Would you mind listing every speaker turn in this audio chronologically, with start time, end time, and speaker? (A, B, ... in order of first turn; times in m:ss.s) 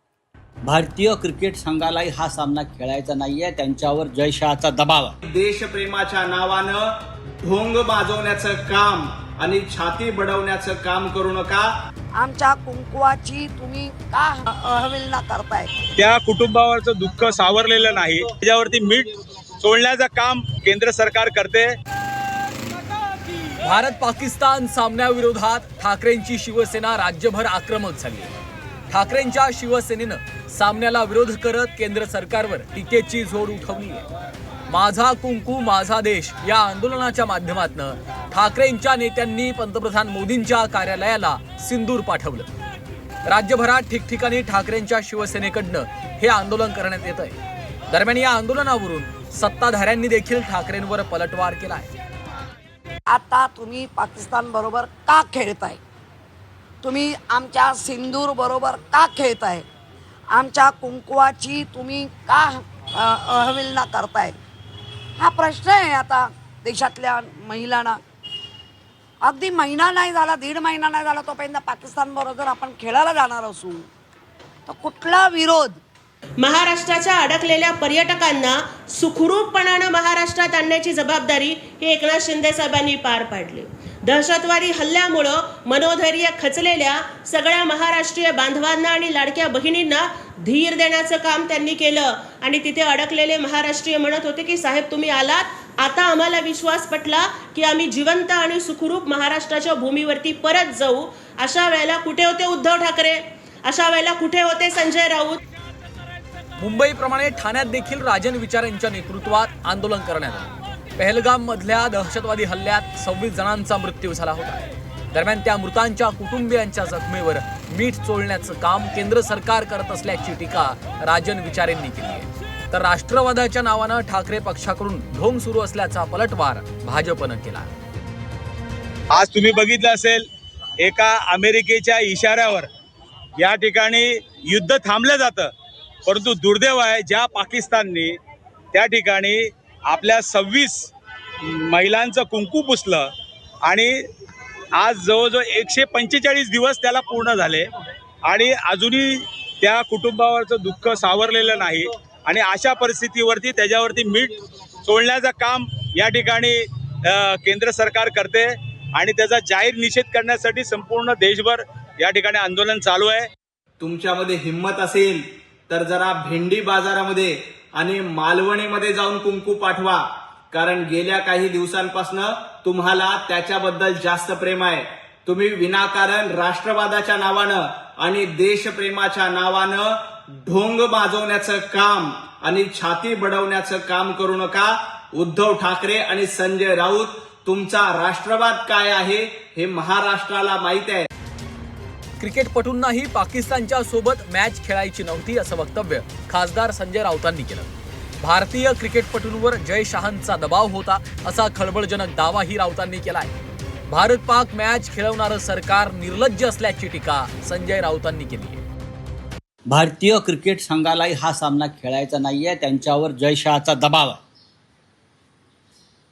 0:00.7-0:05.1 A
0:05.2-0:06.9 B
0:07.4-0:11.7 B
0:12.2-0:15.7 C
0:16.0-0:19.1 D
0:19.6-0:21.8 D
0:23.6-0:28.3 E
0:28.9-0:34.1 E
0:34.7-0:42.5 E
0:43.3-0:47.4 E
0:47.9-0:51.9 E
0:53.1-0:55.8 C
0:56.8-0:59.6 C
1:00.3-1:04.4 C
1:05.2-1:08.0 C
1:09.2-1:13.9 C
1:14.7-1:15.8 C
1:16.4-1:45.4 F
1:46.6-2:07.7 E
2:09.2-2:10.2 D
2:10.8-2:12.7 D
2:13.4-2:15.5 D
2:16.1-2:18.2 D
2:18.7-2:20.9 D
2:21.4-2:23.1 D
2:23.6-2:24.0 D
2:24.8-2:27.7 D
2:28.3-2:34.3 D
2:34.8-2:43.3 D
2:43.8-2:59.9 B
3:00.5-3:11.1 B
3:12.2-3:23.4 E
3:23.9-3:28.6 E
3:29.7-3:34.2 A